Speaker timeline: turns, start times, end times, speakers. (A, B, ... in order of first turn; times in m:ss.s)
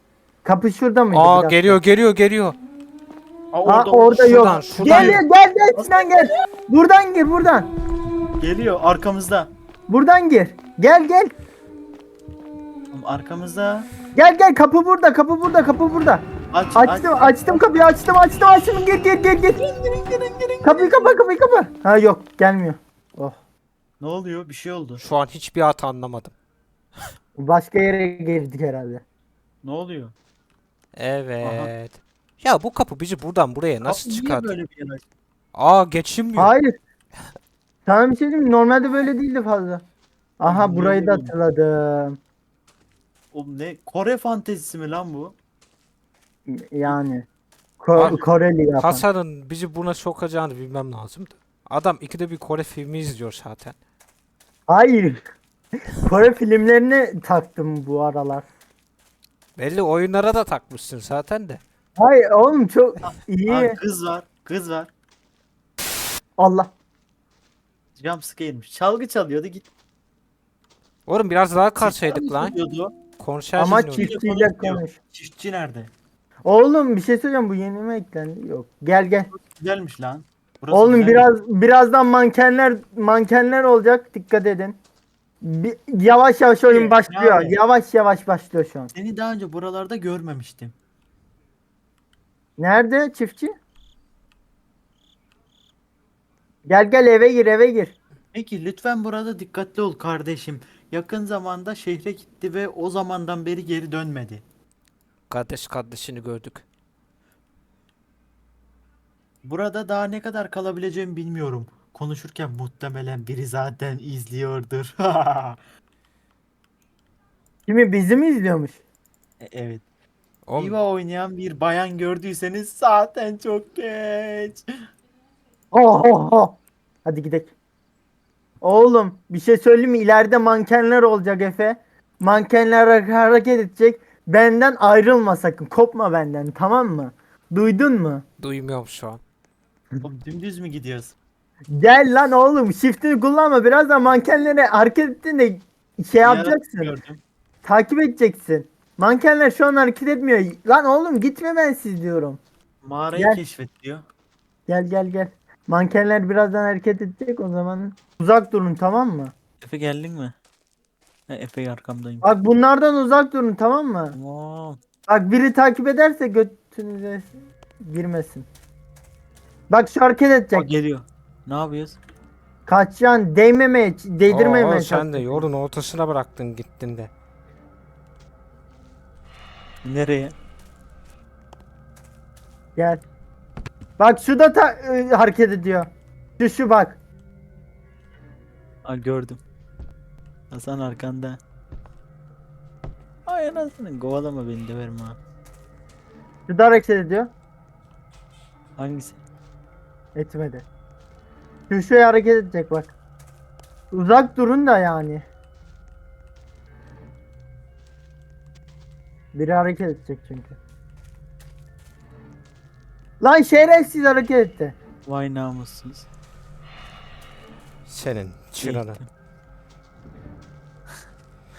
0:00.4-0:01.8 A
0:01.1-0:02.6 B
0:03.5-0:06.5 C
0:03.7-0:07.7 A
0:04.2-0:05.2 B
0:08.4-0:09.5 C
0:09.9-0:11.3 A
0:12.9-0:13.9 C
0:14.2-0:19.6 A
0:16.5-0:17.5 C
0:19.6-0:21.2 C
0:20.6-0:23.4 A
0:24.0-0:25.0 C
0:25.0-0:26.3 B
0:27.4-0:29.0 A
0:29.6-0:30.1 C
0:30.9-0:34.5 B
0:31.4-0:31.7 C
0:33.8-0:35.0 C
0:35.6-0:36.5 B
0:36.4-0:36.7 A
0:37.9-0:39.8 A
0:40.4-0:42.2 A
0:40.4-0:41.3 C
0:43.3-0:45.4 C
0:46.5-0:47.3 A
0:47.8-0:49.0 A
0:48.0-0:48.2 B
0:48.8-0:53.8 B
0:54.7-0:55.2 A
0:55.9-0:58.5 A
0:59.6-1:01.6 B
1:02.0-1:03.8 A
1:03.0-1:04.9 C
1:06.4-1:06.7 A
1:08.0-1:09.7 C
1:11.1-1:12.6 B
1:11.8-1:13.0 C
1:13.2-1:14.1 B
1:13.6-1:15.0 A
1:13.7-1:15.9 C
1:16.4-1:19.3 A
1:19.3-1:21.3 C
1:20.7-1:24.8 A
1:25.4-1:28.9 A
1:26.7-1:27.6 C
1:29.0-1:30.8 C
1:32.6-1:33.5 A
1:36.7-1:38.0 A
1:38.3-1:44.4 C
1:45.3-1:46.6 B
1:49.4-1:55.6 C
1:57.7-1:58.8 A
1:59.4-1:59.8 C
2:00.5-2:00.8 B
2:00.6-2:04.6 C
2:05.7-2:07.5 A
2:08.6-2:18.2 A
2:18.4-2:19.2 B
2:20.0-2:21.2 C
2:21.7-2:26.9 A
2:26.2-2:27.2 C
2:27.6-2:32.4 A
2:32.8-2:34.0 C
2:34.7-2:39.3 A
2:39.6-2:40.4 C
2:41.3-2:42.2 C
2:42.2-2:44.2 A
2:44.2-2:44.8 C
2:45.1-2:48.5 A
2:49.7-2:50.7 A
2:50.5-2:52.0 C
2:52.7-2:55.4 A
2:54.3-2:57.1 B
2:59.8-3:00.4 C
3:02.8-3:03.0 A
3:04.0-3:07.0 A
3:08.8-3:09.4 C
3:10.5-3:11.4 C
3:13.3-3:15.2 C
3:16.5-3:17.3 A
3:18.8-3:19.2 C
3:20.2-3:20.7 A
3:21.7-3:22.9 A
3:23.9-3:25.3 A
3:29.3-3:30.6 A
3:33.2-3:34.8 A
3:35.1-3:36.1 C
3:37.9-3:39.0 B
3:38.6-3:39.0 C